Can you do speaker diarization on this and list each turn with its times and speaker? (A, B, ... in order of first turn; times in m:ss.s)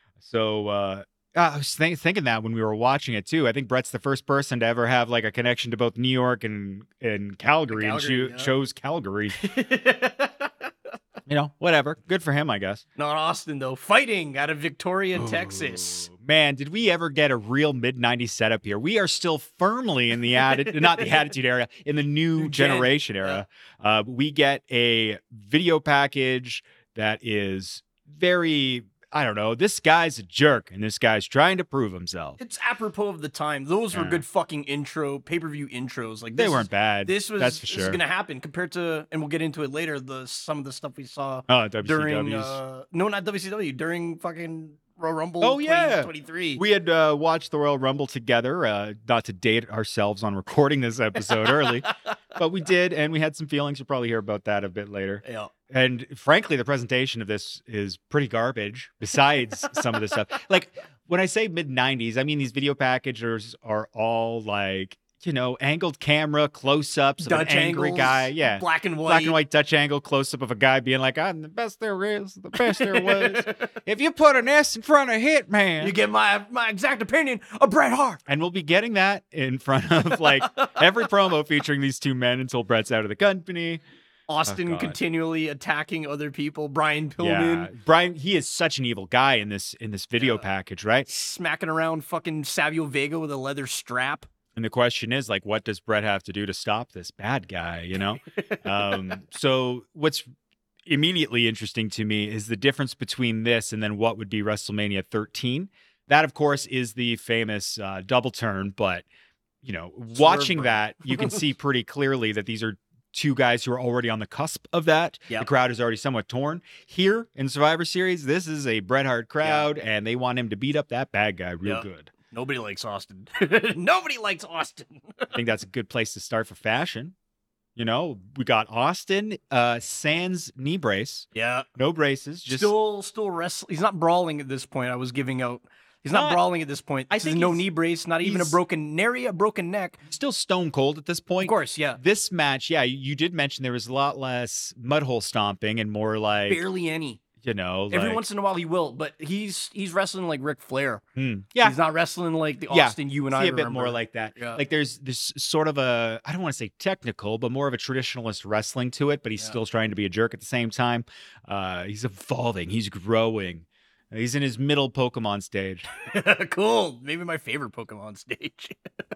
0:00.2-0:09.4 A
0:07.7-0:08.5 B
0:09.4-0:10.7 B
0:11.3-0:12.8 A
0:13.0-0:16.1 B
0:15.2-0:32.4 A
0:20.7-0:21.1 B
0:22.4-0:23.4 B
0:32.4-0:46.6 B
0:33.9-0:34.2 A
0:36.4-0:38.0 A
0:41.5-0:42.6 A
0:45.4-1:16.0 A
0:51.3-0:51.9 B
0:55.2-0:55.5 B
1:07.2-1:09.4 B
1:12.6-1:13.7 B
1:15.8-1:18.2 B
1:18.3-1:23.8 A
1:20.4-1:20.8 B
1:24.3-1:27.7 B
1:24.4-1:25.0 A
1:27.2-1:31.1 A
1:31.1-1:34.3 B
1:34.6-1:40.3 A
1:40.9-1:49.1 A
1:49.6-2:02.1 A
1:50.2-1:51.4 B
1:59.4-1:59.7 B
2:01.6-2:05.3 B
2:05.3-2:07.1 A
2:07.8-2:12.7 A
2:11.3-2:11.7 B
2:12.5-2:20.0 B
2:16.1-2:16.4 A
2:17.1-2:17.7 A
2:18.2-2:18.6 A
2:20.1-2:26.6 A
2:21.4-2:22.0 B
2:26.5-2:27.2 B
2:27.4-2:28.2 A
2:27.9-2:31.0 B
2:31.2-2:31.8 A
2:31.6-2:34.6 B
2:32.7-2:45.9 A
2:46.0-2:48.8 B